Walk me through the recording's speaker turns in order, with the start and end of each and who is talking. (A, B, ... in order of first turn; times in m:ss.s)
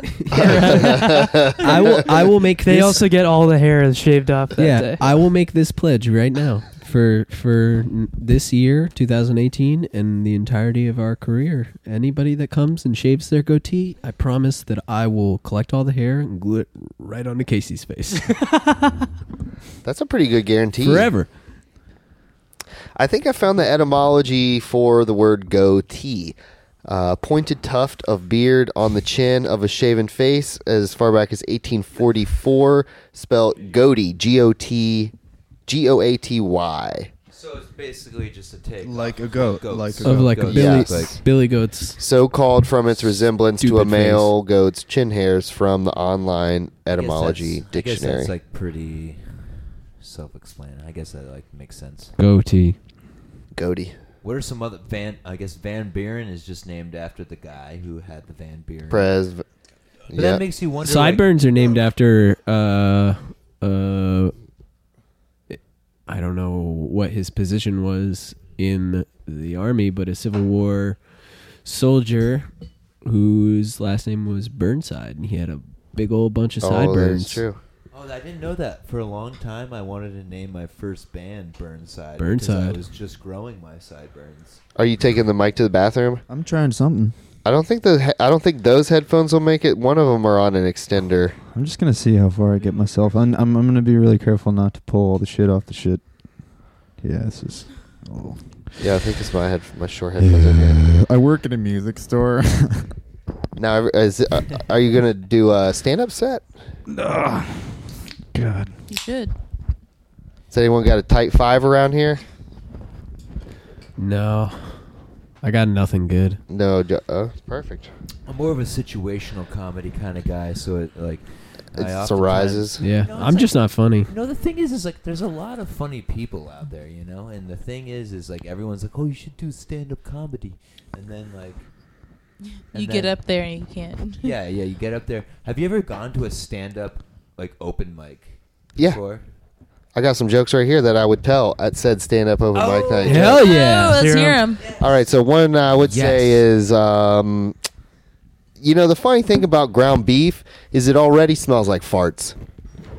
0:00.2-0:01.0 A
0:00.4-0:00.9 B
0:00.4-0:01.7 C
0:00.4-0:01.7 D
0:01.6-0:03.1 A
0:02.6-0:05.0 D
0:04.6-0:18.5 A
0:19.8-0:21.1 C
0:20.8-0:21.3 A
0:23.0-0:35.1 C
0:35.7-0:37.1 C
0:37.3-0:41.2 E
0:38.8-0:40.6 B
0:40.0-0:42.0 A
0:40.5-0:41.2 C
0:42.0-0:48.3 C
0:43.6-0:44.3 A
0:46.9-0:52.1 E
0:52.2-0:52.8 A
0:53.5-0:54.0 C
0:54.2-0:59.1 E
0:58.9-0:59.4 C
1:00.1-1:00.4 C
1:00.1-1:01.3 E
1:00.8-1:04.3 A
1:05.5-1:11.0 A
1:11.6-1:12.5 A
1:13.0-1:17.4 A
1:16.6-1:17.6 C
1:17.9-1:24.6 E
1:22.2-1:22.8 A
1:24.8-1:26.2 C
1:26.3-1:27.1 B
1:27.4-1:31.4 C
1:31.5-1:36.0 B
1:37.0-1:38.4 B
1:38.8-1:40.9 C
1:40.2-1:42.9 B
1:43.6-1:46.4 C
1:46.9-1:48.7 B
1:48.9-1:49.3 F
1:50.5-1:52.2 C
1:54.0-1:54.9 A
1:55.4-1:56.4 A
1:56.5-1:57.9 C
1:58.2-2:11.7 E
2:01.7-2:02.8 C
2:02.8-2:04.1 A
2:12.6-2:14.3 F
2:12.7-2:13.2 E
2:14.2-2:19.2 E
2:19.9-2:23.4 C
2:22.5-2:23.4 E
2:23.0-2:24.0 A
2:23.3-2:24.7 F
2:23.8-2:24.5 D
2:24.6-2:25.0 E
2:24.8-2:27.6 C
2:25.8-2:26.4 E
2:28.6-2:32.4 C